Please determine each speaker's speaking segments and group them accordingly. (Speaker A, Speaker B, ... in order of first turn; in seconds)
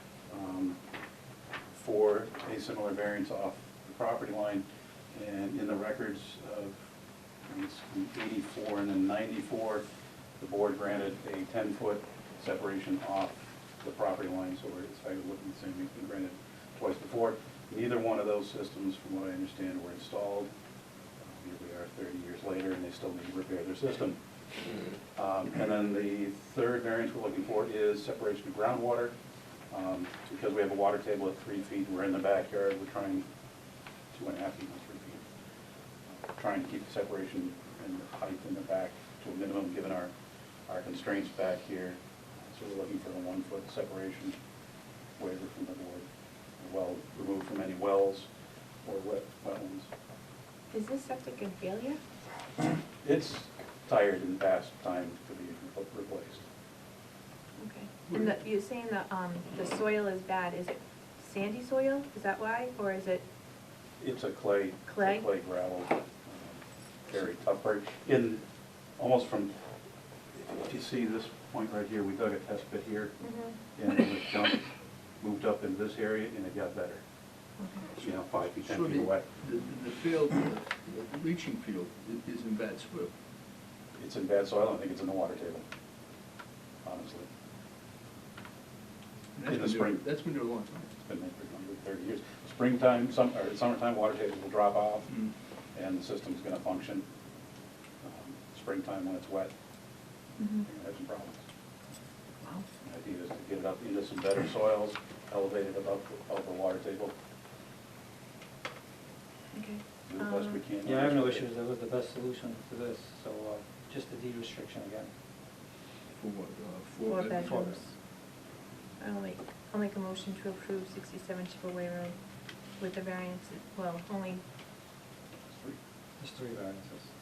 Speaker A: 0.3-0.8, 1.7-6.9, 7.4-9.8, 10.4-20.5, 21.2-24.2, 25.1-29.1, 29.7-33.2, 34.1-35.2, 36.2-40.1, 40.7-44.4, 45.2-46.0, 46.6-48.3, 48.8-49.9, 53.0-56.5, 64.0-68.4, 69.0-69.5, 70.3-74.7, 75.2-77.0, 78.0-79.3, 84.0-85.6, 86.8-87.3, 89.4-90.0, 91.0-95.1, 95.7-97.0, 98.0-99.5, 100.6-101.4, 102.8-107.1, 110.1-111.5
Speaker B: 50.7-52.0, 57.6-63.2, 64.8-65.2, 73.2-73.6, 77.6-77.9, 100.4-100.7, 109.5-110.7, 117.1-117.9, 119.0-122.2, 122.7-124.4
Speaker C: 78.0-83.1, 89.3-90.9, 116.2-117.8
Speaker D: 110.8-115.1, 117.4-117.8, 126.2-127.1